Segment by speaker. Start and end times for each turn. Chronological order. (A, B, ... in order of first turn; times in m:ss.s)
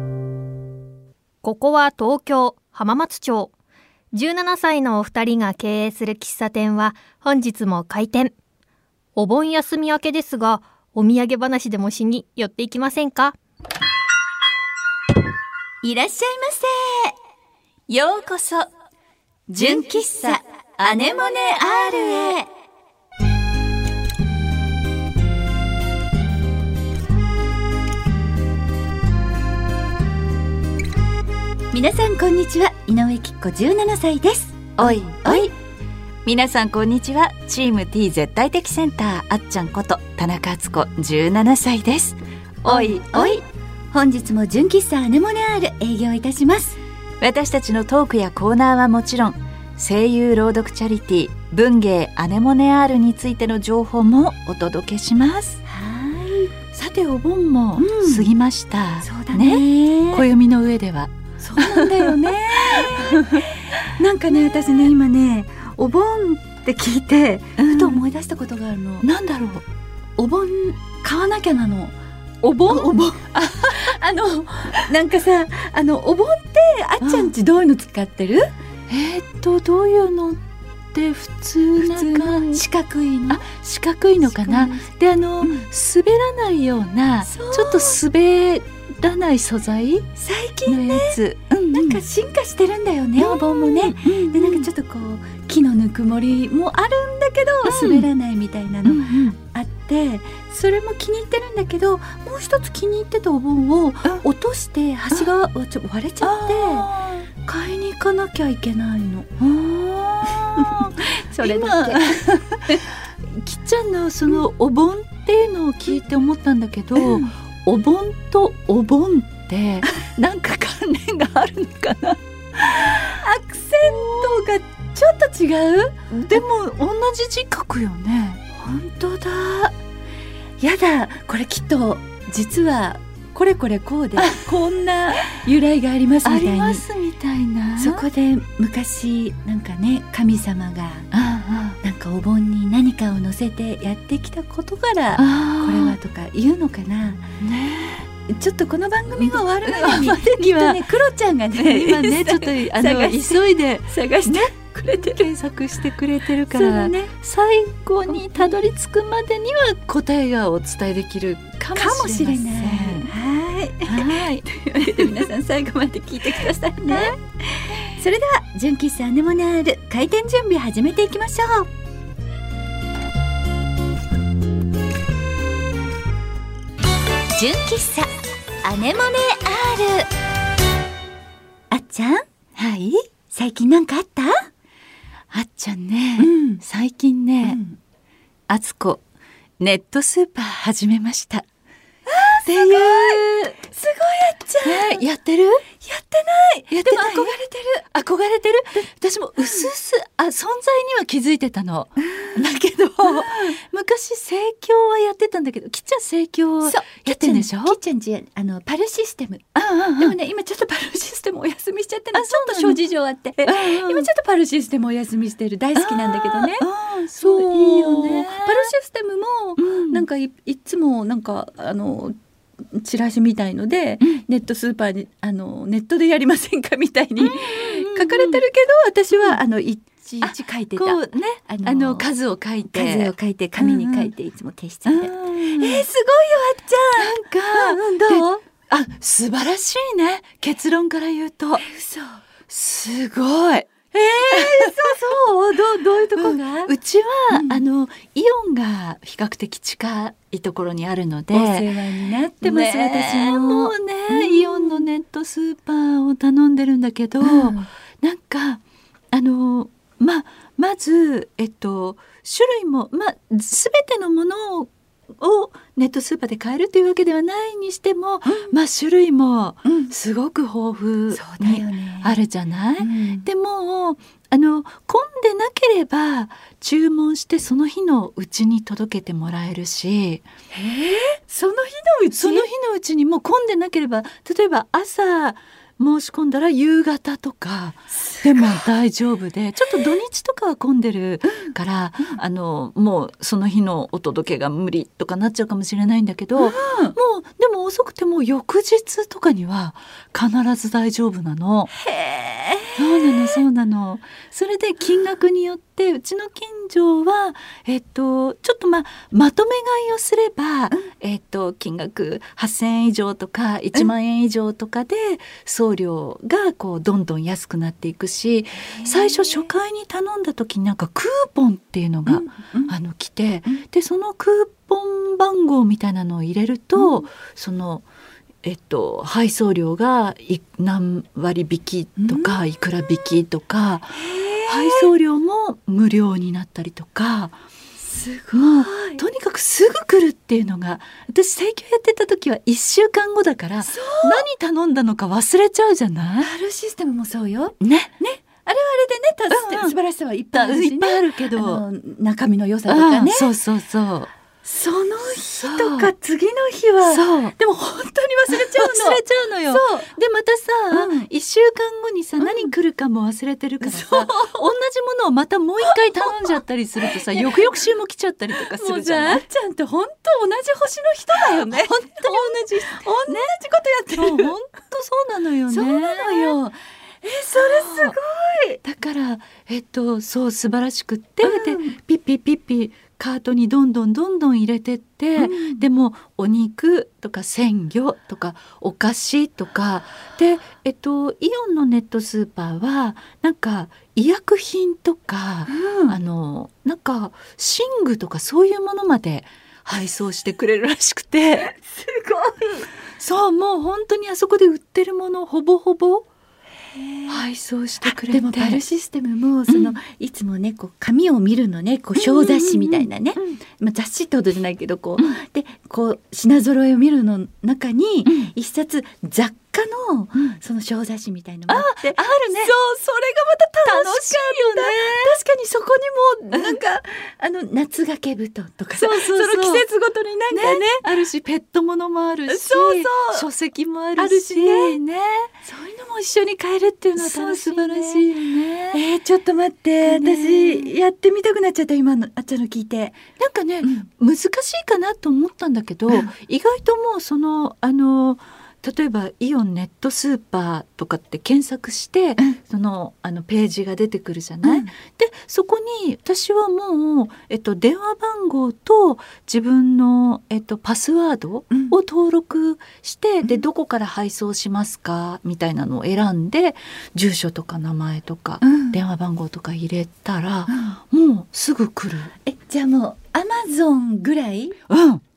0:01.4-0:03.5 A
0:04.1-0:08.3 A
0:09.2-0:13.4 A
0:15.8-0:17.2 B
0:17.9-0:18.7 C
0:19.5-0:22.4 C
0:19.6-0:22.4 B
0:31.7-0:35.5 B
0:34.8-0:35.5 C
0:36.2-0:43.4 C
0:42.6-0:46.8 B
0:47.2-0:55.6 C
0:55.7-0:56.6 B
0:56.7-1:03.4 C
0:57.8-0:58.3 B
0:59.0-1:00.2 B
1:01.4-1:09.1 B
1:07.6-1:08.0 C
1:09.0-1:09.6 C
1:10.2-1:11.9 B
1:12.4-1:13.9 C
1:12.6-1:18.5 B
1:17.0-1:17.3 C
1:18.9-1:22.6 C
1:21.8-1:23.4 B
1:23.3-1:30.1 C
1:24.2-1:24.8 B
1:27.2-1:28.0 B
1:30.2-1:49.3 B
1:30.7-1:32.0 C
1:33.2-1:34.7 C
1:37.6-1:38.1 C
1:38.8-1:39.4 C
1:46.2-1:47.3 C
1:49.4-2:03.2 C
1:50.5-1:52.8 B
1:57.0-1:57.3 B
2:03.0-2:06.4 B
2:03.8-2:04.4 C
2:06.1-2:08.4 C
2:08.5-2:09.7 B
2:10.6-2:16.8 B
2:16.2-2:18.0 C
2:17.8-2:21.1 B
2:21.1-2:21.8 C
2:21.8-2:27.3 B
2:25.2-2:26.0 C
2:27.4-2:28.1 C
2:28.3-2:35.3 B
2:29.1-2:30.8 C
2:31.5-2:43.1 C
2:36.5-2:37.1 B
2:38.1-2:38.5 B
2:41.7-2:51.7 B
2:43.8-2:45.3 C
2:46.8-2:47.2 C
2:57.3-2:58.1 B
2:58.6-3:00.1 B
3:01.7-3:02.2 B
3:02.6-3:03.0 C
3:03.3-3:04.5 B
3:05.3-3:07.6 C
3:06.2-3:06.6 B
3:07.4-3:07.8 B
3:08.5-3:09.0 C
3:09.6-3:11.4 C
3:12.1-3:15.0 B
3:12.4-3:13.6 C
3:14.6-3:15.6 C
3:15.8-3:17.8 B
3:16.7-3:27.8 C
3:19.4-3:19.7 B
3:22.1-3:22.3 B
3:23.0-3:23.6 B
3:26.6-3:42.2 B
3:29.5-3:30.1 C
3:32.1-3:32.8 C
3:33.4-3:34.1 C
3:35.8-3:38.7 C
3:39.6-3:40.0 C
3:42.7-3:52.1 B
3:47.2-3:48.4 C
3:49.1-3:49.4 C
3:50.2-3:54.1 C
3:52.7-3:58.4 B
3:54.8-3:55.8 C
3:57.0-4:01.6 C
4:01.6-4:02.2 B
4:02.5-4:03.7 C
4:03.9-4:06.7 B
4:04.3-4:04.8 C
4:06.2-4:11.7 C
4:07.3-4:07.6 B
4:11.3-4:14.8 B
4:12.4-4:40.2 C
4:17.2-4:17.7 B
4:28.2-4:28.5 B
4:29.6-4:29.9 B
4:31.1-4:32.2 B
4:32.8-4:33.3 B
4:40.5-4:42.5 B
4:42.1-5:01.7 C
4:48.0-4:48.6 B
4:56.4-4:56.9 B
5:01.7-5:03.4 B
5:02.8-5:27.8 C
5:18.8-5:19.5 B
5:22.1-5:22.7 B
5:28.4-5:37.4 C
5:32.0-5:32.4 B
5:33.9-5:34.9 B
5:37.8-5:39.0 B
5:38.3-5:46.3 C
5:43.6-5:44.2 B
5:46.2-5:53.3 B
5:47.6-5:47.9 C
5:49.3-5:49.8 C
5:50.3-5:51.6 C
5:52.7-5:54.1 C
5:54.4-5:59.9 B
5:55.0-5:55.9 C
5:56.8-5:57.4 C
5:58.3-6:09.2 C
6:00.7-6:01.1 B
6:02.2-6:02.5 B
6:03.6-6:04.5 B
6:05.6-6:07.6 B
6:08.4-6:14.3 B
6:11.2-6:16.4 C
6:15.5-6:18.6 B
6:17.3-6:18.0 C
6:18.6-6:41.5 C
6:21.2-6:21.8 B
6:25.2-6:25.7 B
6:35.5-6:36.0 B
6:41.6-6:42.7 B
6:43.0-6:46.1 C
6:46.7-6:47.2 B
6:47.1-6:48.6 C
6:47.8-7:10.8 B
6:49.5-6:49.8 C
6:52.0-6:53.2 C
7:01.5-7:02.5 C
7:03.6-7:05.1 C
7:06.3-7:06.6 C
7:08.8-7:09.6 C
7:10.3-7:15.3 C
7:12.3-7:13.3 B
7:14.0-7:14.8 B
7:15.4-7:18.1 B
7:17.0-7:18.8 C
7:18.7-7:23.0 B
7:19.8-7:20.7 C
7:23.2-7:52.1 C
7:23.6-7:23.9 B
7:34.4-7:34.7 B
7:41.5-7:41.8 B
7:48.4-7:48.8 B
7:50.5-7:50.8 B
7:52.2-7:54.6 B
7:54.7-7:55.0 C